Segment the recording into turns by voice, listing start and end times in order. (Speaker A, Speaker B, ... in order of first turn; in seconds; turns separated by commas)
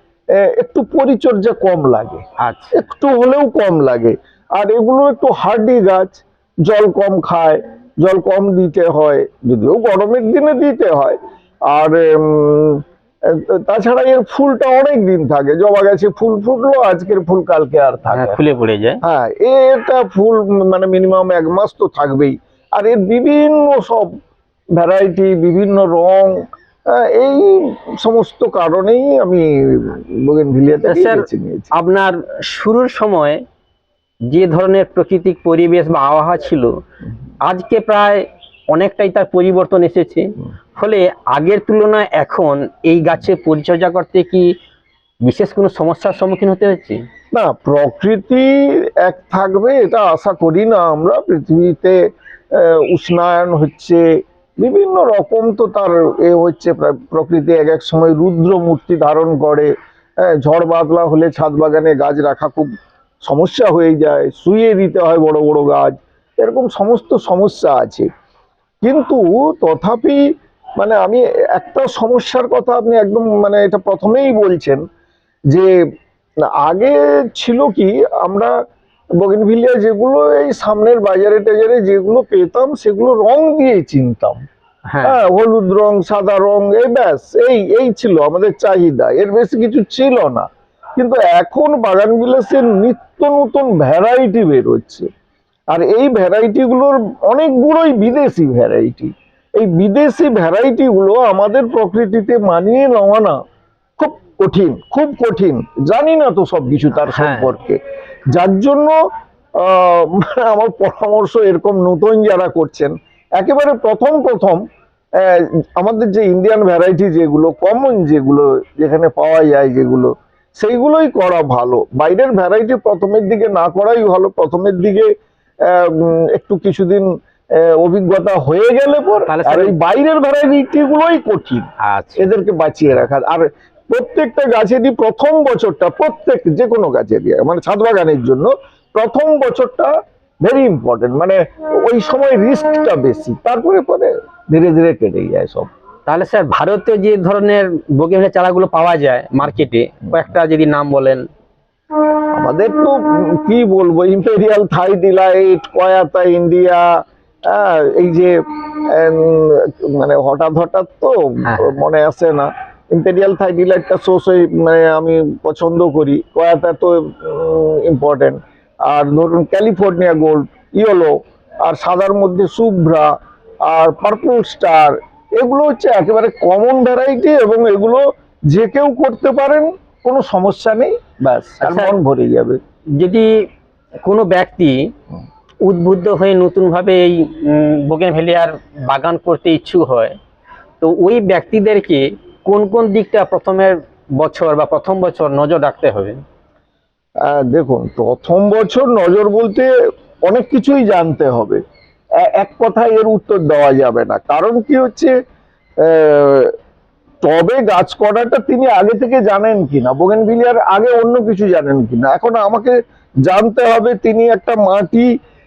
Speaker A: 0.4-11.2, Speaker B: 2.4-2.7, Speaker A: 11.7-18.4, Speaker B: 18.1-19.0, Speaker A: 19.0-24.1, Speaker A: 24.8-31.7, Speaker B: 30.9-33.4, Speaker B: 34.3-36.7, Speaker B: 37.4-44.5, Speaker B: 45.2-47.0, Speaker A: 47.3-52.0, Speaker A: 52.5-54.0, Speaker A: 54.6-59.7, Speaker A: 60.2-62.7, Speaker A: 63.2-68.1, Speaker A: 68.8-70.2, Speaker A: 70.8-74.8, Speaker A: 76.6-78.5, Speaker A: 79.2-84.4, Speaker B: 84.9-85.2, Speaker A: 85.0-95.1, Speaker A: 95.7-103.3, Speaker A: 104.0-107.8, Speaker B: 107.1-107.5, Speaker A: 108.3-108.9, Speaker A: 109.6-114.6, Speaker A: 115.2-125.1, Speaker A: 125.7-131.6, Speaker B: 129.3-129.7, Speaker B: 131.8-132.2, Speaker A: 132.2-139.9, Speaker A: 140.4-145.7, Speaker B: 146.1-151.2, Speaker A: 152.3-156.9, Speaker A: 157.5-158.3, Speaker A: 158.9-173.1, Speaker B: 161.4-161.8, Speaker A: 173.7-182.6, Speaker B: 181.6-181.9, Speaker B: 182.9-183.4, Speaker B: 184.0-184.8, Speaker B: 185.6-190.1, Speaker B: 190.8-196.2, Speaker A: 197.2-199.7, Speaker A: 200.2-201.6, Speaker A: 202.2-205.1, Speaker A: 205.8-206.5, Speaker A: 207.2-215.1